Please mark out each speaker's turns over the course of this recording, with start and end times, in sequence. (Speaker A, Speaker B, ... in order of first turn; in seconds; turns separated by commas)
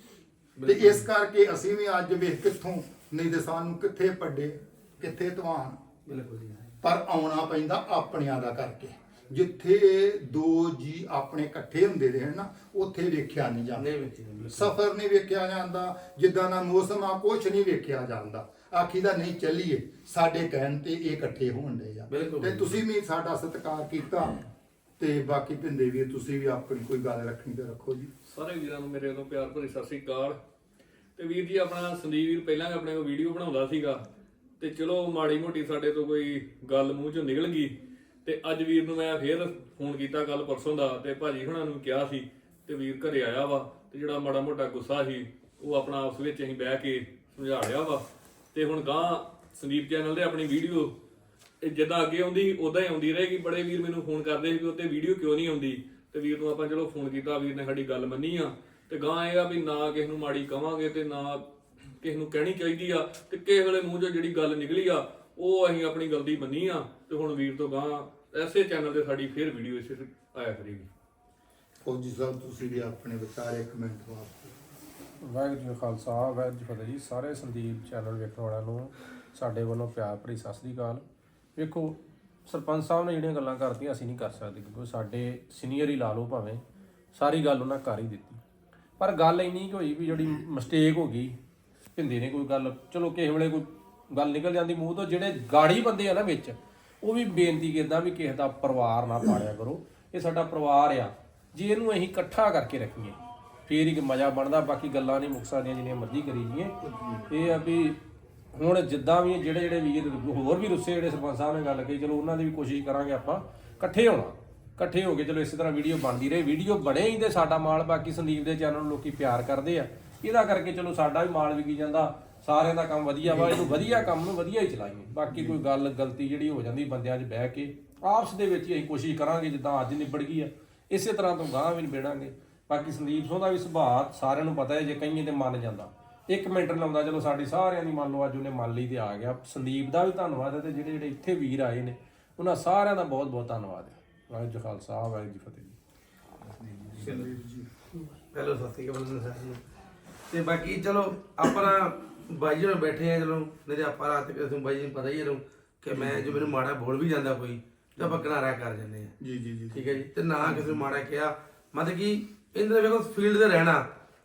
Speaker A: 0.6-1.1, Speaker B: 0.6-5.8, Speaker A: 6.1-6.7, Speaker B: 6.8-13.9, Speaker A: 13.8-14.7, Speaker B: 14.5-24.4, Speaker A: 22.1-22.8, Speaker B: 25.0-28.1, Speaker C: 28.3-30.3, Speaker C: 31.2-34.0, Speaker C: 34.6-37.7, Speaker C: 38.2-48.0, Speaker C: 48.5-50.9, Speaker C: 51.6-61.4, Speaker C: 62.0-70.9, Speaker B: 71.8-74.5, Speaker D: 75.2-81.0, Speaker D: 81.5-86.6, Speaker D: 87.1-88.4, Speaker D: 89.0-91.3, Speaker D: 91.9-106.7, Speaker B: 106.8-107.5, Speaker D: 107.3-108.0, Speaker D: 108.5-145.8, Speaker B: 123.2-123.9, Speaker B: 125.3-125.5, Speaker B: 146.6-147.7, Speaker A: 148.3-149.6, Speaker A: 150.3-159.1, Speaker B: 155.9-156.5, Speaker B: 158.0-158.2, Speaker B: 159.2-160.8, Speaker A: 159.7-163.8